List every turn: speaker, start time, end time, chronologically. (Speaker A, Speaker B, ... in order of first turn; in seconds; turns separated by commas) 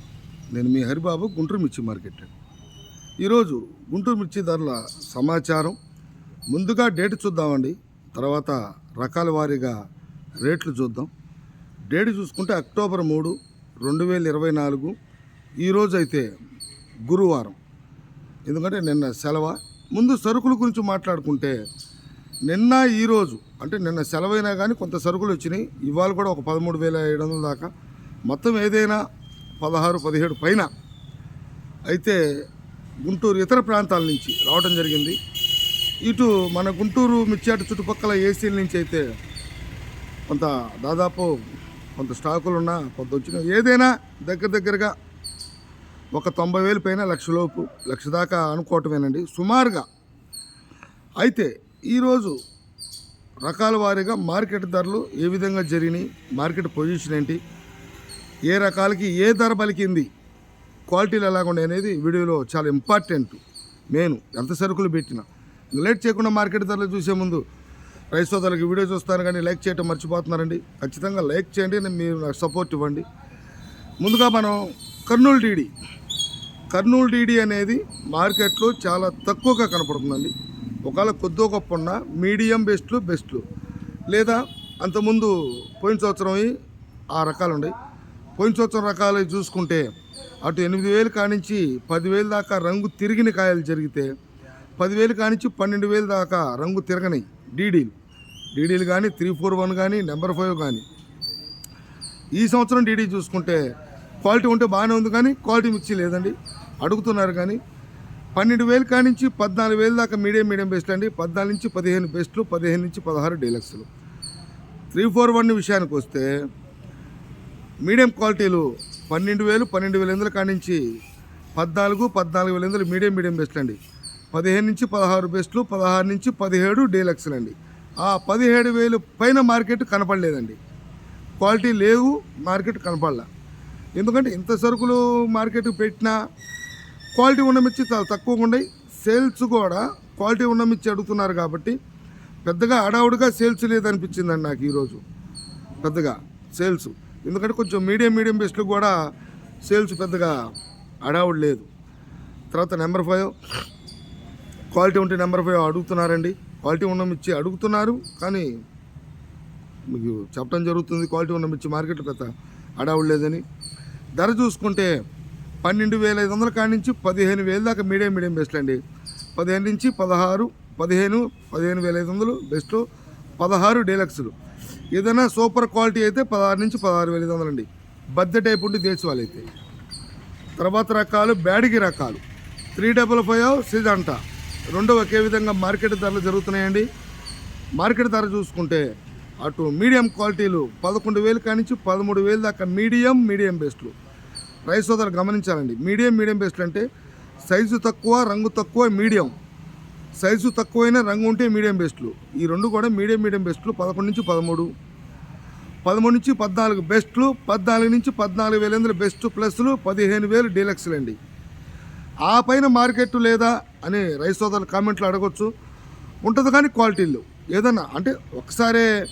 Speaker A: 0.5-2.3, Speaker A: 3.2-5.8, Speaker A: 6.5-9.7, Speaker A: 10.4-11.1, Speaker A: 11.9-14.9, Speaker A: 15.6-16.3, Speaker A: 17.1-17.6, Speaker A: 18.5-21.6, Speaker A: 22.5-27.7, Speaker A: 28.3-29.0, Speaker A: 29.6-30.7, Speaker A: 31.9-32.2, Speaker A: 33.1-35.2, Speaker A: 36.0-39.0, Speaker A: 40.3-41.4, Speaker A: 42.0-44.9, Speaker A: 46.1-49.9, Speaker A: 51.2-52.4, Speaker A: 53.4-57.4, Speaker A: 58.5-60.1, Speaker A: 60.9-63.4, Speaker A: 63.9-67.4, Speaker A: 68.1-73.0, Speaker A: 74.0-75.7, Speaker A: 76.7-80.3, Speaker A: 80.9-83.4, Speaker A: 84.1-86.5, Speaker A: 87.1-87.7, Speaker A: 88.4-89.9, Speaker A: 90.5-94.1, Speaker A: 94.8-97.9, Speaker A: 98.5-100.8, Speaker A: 102.4-103.6, Speaker A: 104.2-107.6, Speaker A: 108.3-113.9, Speaker A: 114.9-116.3, Speaker A: 117.8-120.8, Speaker A: 121.6-123.8, Speaker A: 124.3-130.6, Speaker A: 131.4-133.3, Speaker A: 134.0-136.2, Speaker A: 137.2-141.8, Speaker A: 142.5-145.0, Speaker A: 145.8-148.9, Speaker A: 149.7-150.4, Speaker A: 151.1-151.7, Speaker A: 152.5-153.3, Speaker A: 154.7-158.5, Speaker A: 159.9-162.3, Speaker A: 162.8-163.4, Speaker A: 164.2-164.9, Speaker A: 165.6-168.8, Speaker A: 169.4-172.8, Speaker A: 173.4-174.3, Speaker A: 174.9-177.7, Speaker A: 178.2-179.5, Speaker A: 180.6-182.2, Speaker A: 182.8-184.2, Speaker A: 184.7-186.9, Speaker A: 187.8-188.8, Speaker A: 189.4-193.9, Speaker A: 194.7-196.8, Speaker A: 197.5-199.3, Speaker A: 200.2-204.7, Speaker A: 205.8-211.2, Speaker A: 212.3-215.5, Speaker A: 216.2-218.9